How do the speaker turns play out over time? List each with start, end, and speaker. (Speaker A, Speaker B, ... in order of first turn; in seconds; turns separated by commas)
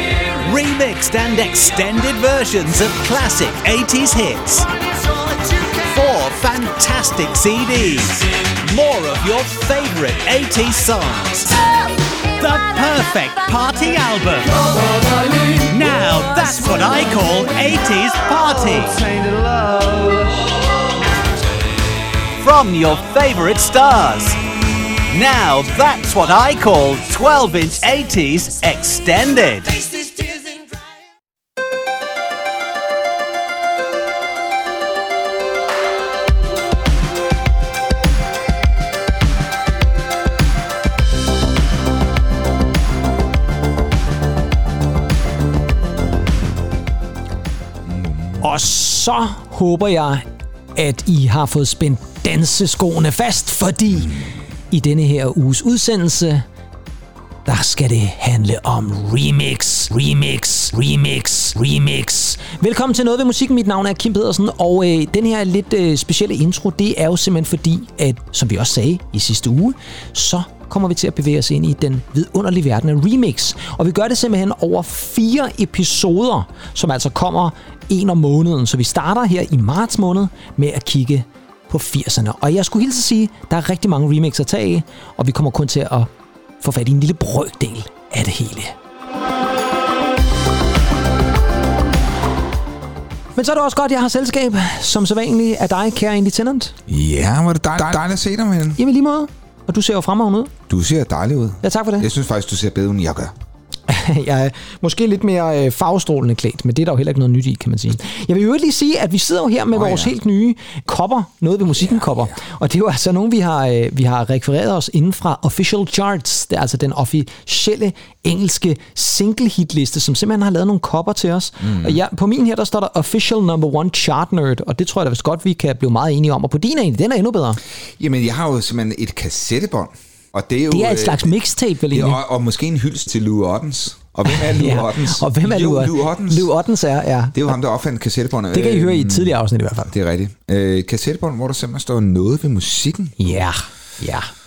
Speaker A: 0.3-4.7, Speaker A: 5.8-11.6, Speaker A: 12.4-14.6, Speaker A: 15.5-19.1, Speaker A: 22.4-24.4, Speaker A: 25.1-29.8, Speaker B: 47.9-48.4, Speaker C: 48.4-54.2, Speaker C: 54.7-56.4, Speaker C: 57.4-86.1, Speaker C: 86.6-88.7, Speaker C: 93.3-96.8, Speaker B: 96.9-98.8, Speaker C: 98.8-100.5, Speaker B: 100.7-103.3, Speaker C: 101.6-102.1, Speaker C: 103.9-127.6, Speaker B: 109.7-110.1, Speaker B: 111.7-112.4, Speaker B: 121.6-122.0, Speaker B: 128.0-131.3, Speaker C: 130.7-132.2, Speaker B: 131.9-136.5, Speaker C: 134.2-137.5, Speaker B: 137.3-139.3, Speaker C: 138.5-139.9, Speaker B: 139.9-143.4, Speaker C: 143.2-144.3